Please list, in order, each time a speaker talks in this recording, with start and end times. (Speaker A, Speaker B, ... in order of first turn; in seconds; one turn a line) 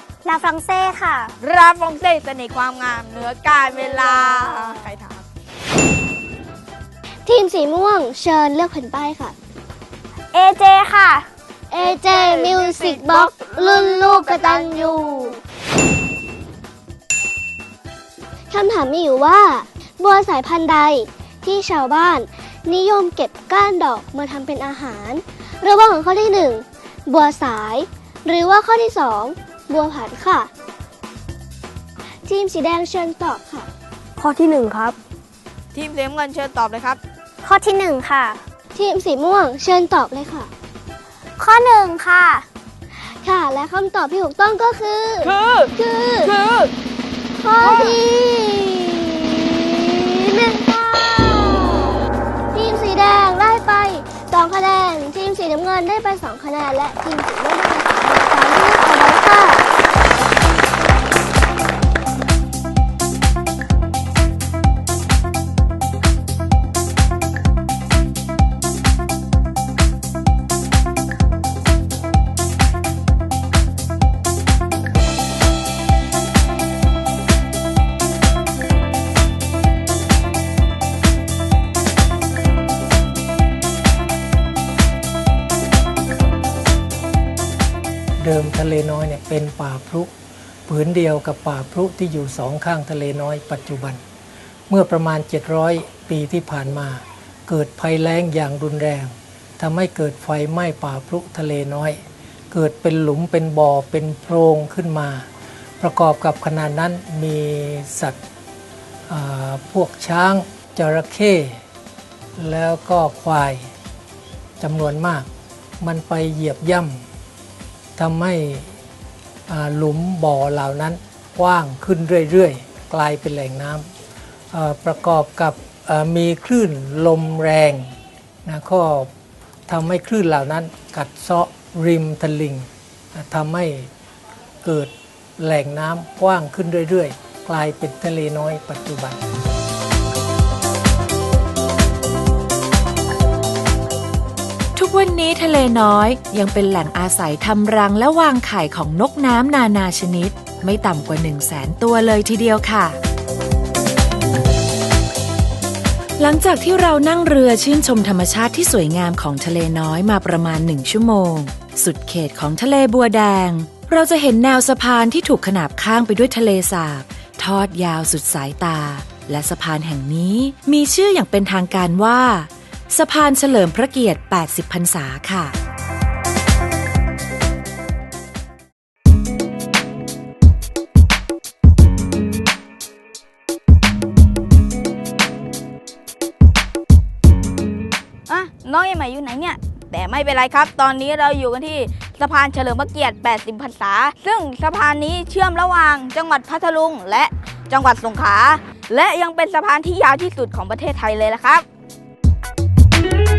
Speaker A: 0.2-1.3
Speaker B: 1.4-5.2
Speaker C: 7.3-9.3
Speaker A: 10.3-11.3
Speaker C: 11.7-15.4
Speaker B: 11.8-15.2
Speaker C: 18.5-30.5
Speaker C: 32.3-33.7
Speaker A: 34.2-35.0
Speaker B: 35.7-37.0
Speaker A: 37.4-38.4
Speaker C: 38.8-40.5
Speaker A: 41.4-42.5
Speaker C: 43.2-46.3
Speaker B: 45.2-45.7
Speaker B: 46.2-46.7
Speaker C: 47.4-52.0
Speaker B: 47.6-48.0
Speaker C: 52.5-59.6
Speaker D: 88.2-90.1
Speaker D: 90.7-94.0
Speaker D: 94.7-102.0
Speaker D: 102.5-105.3
Speaker D: 105.8-108.2
Speaker D: 109.1-111.6
Speaker D: 112.4-113.7
Speaker D: 114.6-115.3
Speaker D: 115.8-117.0
Speaker D: 118.0-118.8
Speaker D: 119.5-123.9
Speaker D: 124.5-127.9
Speaker D: 128.5-129.1
Speaker D: 129.7-133.9
Speaker D: 134.6-139.2
Speaker E: 144.8-153.0
Speaker E: 156.2-175.6
Speaker B: 188.3-201.7